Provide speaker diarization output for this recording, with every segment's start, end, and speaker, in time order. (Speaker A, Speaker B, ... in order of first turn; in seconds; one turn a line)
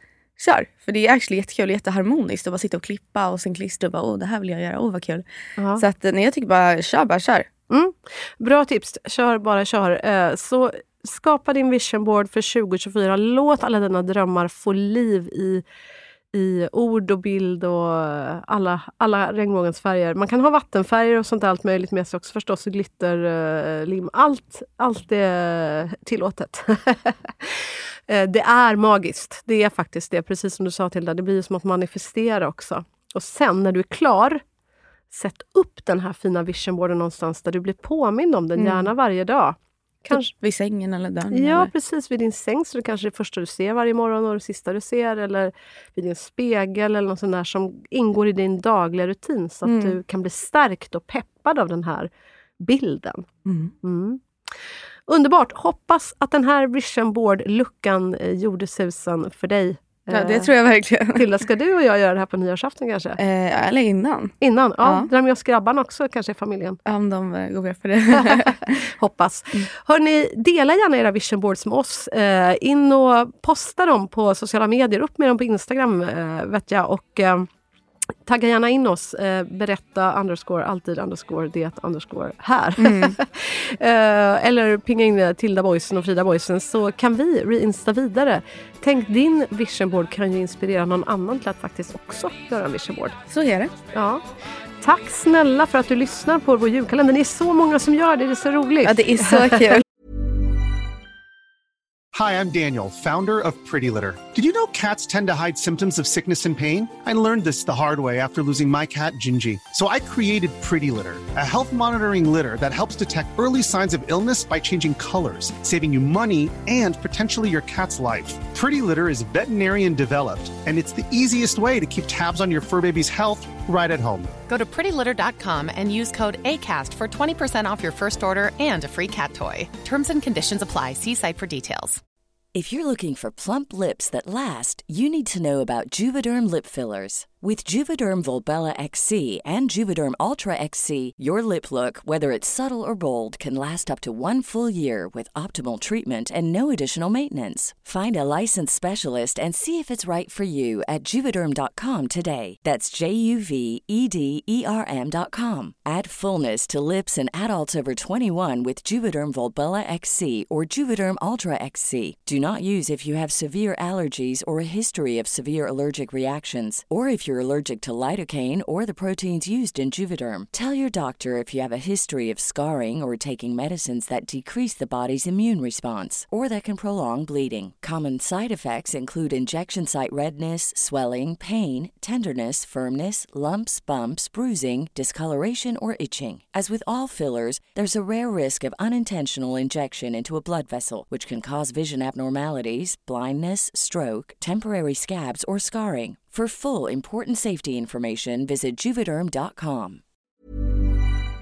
Speaker A: 0.4-5.2
Speaker A: 5.8-7.5
Speaker B: 7.7-15.6
Speaker B: 16.3-27.5
Speaker B: 28.1-34.4
Speaker B: 35.1-40.3
Speaker A: 38.6-38.9
Speaker A: 40.1-41.7
Speaker B: 41.3-53.2
Speaker A: 49.7-50.0
Speaker A: 53.5-53.7
Speaker B: 53.8-54.2
Speaker B: 55.1-60.5
Speaker A: 60.1-61.2
Speaker B: 61.1-63.2
Speaker A: 63.2-65.1
Speaker B: 64.4-66.8
Speaker A: 66.9-68.8
Speaker B: 69.0-77.5
Speaker B: 78.3-93.2
Speaker A: 82.8-83.1
Speaker A: 93.3-93.7
Speaker B: 93.9-94.2
Speaker B: 94.8-99.6
Speaker A: 98.8-99.8
Speaker C: 102.1-124.3
Speaker D: 124.5-132.0
Speaker E: 132.5-200.0